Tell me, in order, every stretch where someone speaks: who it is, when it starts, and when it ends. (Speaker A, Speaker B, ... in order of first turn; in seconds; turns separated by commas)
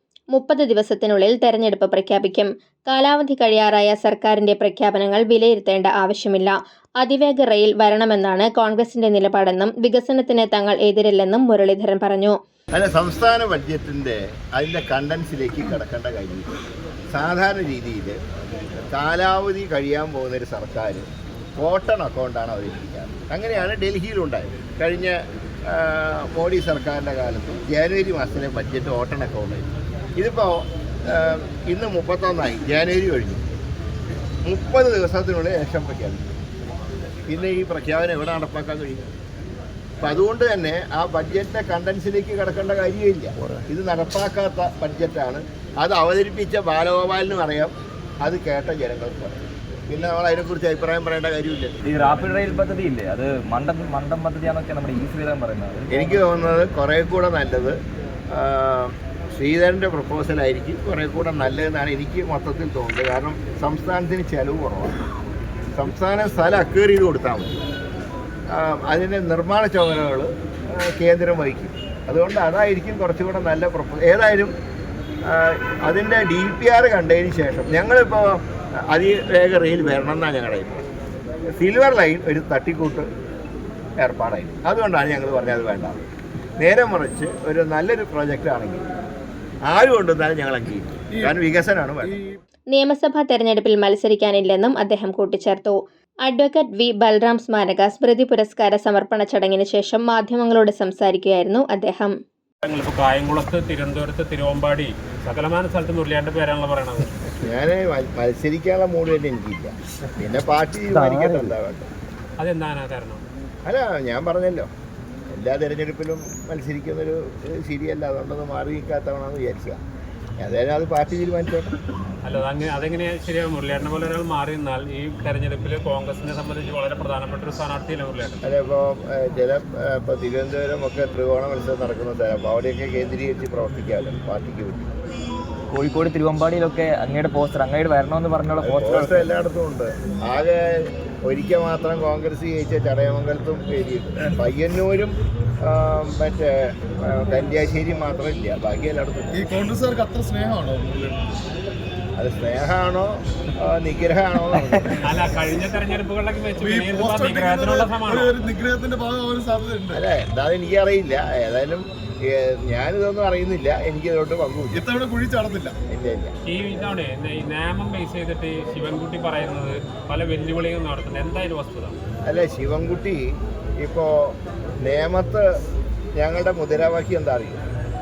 Speaker A: 0.3-12.3, Speaker B: 12.7-16.5, Speaker B: 17.1-18.2, Speaker B: 18.9-21.1, Speaker B: 21.6-25.2, Speaker B: 25.7-33.4, Speaker B: 34.4-36.3, Speaker B: 37.3-39.1, Speaker B: 40.0-51.7, Speaker C: 51.8-56.3, Speaker B: 55.9-57.8, Speaker B: 58.3-65.0, Speaker B: 65.7-67.6, Speaker B: 68.5-74.5, Speaker B: 75.3-78.3, Speaker B: 78.9-80.8, Speaker B: 81.6-83.1, Speaker B: 84.0-86.0, Speaker B: 86.6-88.9, Speaker B: 89.7-92.2, Speaker A: 92.7-102.1, Speaker D: 102.6-107.1, Speaker B: 107.4-111.9, Speaker C: 110.9-111.5, Speaker D: 112.4-113.2, Speaker B: 113.6-114.7, Speaker B: 115.3-119.8, Speaker B: 120.4-121.8, Speaker D: 122.2-128.4, Speaker B: 128.4-134.9, Speaker C: 135.7-139.3, Speaker B: 138.6-145.1, Speaker B: 145.6-149.4, Speaker E: 149.3-151.3, Speaker B: 152.2-155.0, Speaker D: 155.0-158.3, Speaker E: 156.6-160.0, Speaker B: 159.9-164.8, Speaker E: 164.7-165.8, Speaker B: 165.9-166.3, Speaker D: 166.4-172.0, Speaker B: 172.2-173.2, Speaker B: 173.8-175.4, Speaker B: 176.1-177.6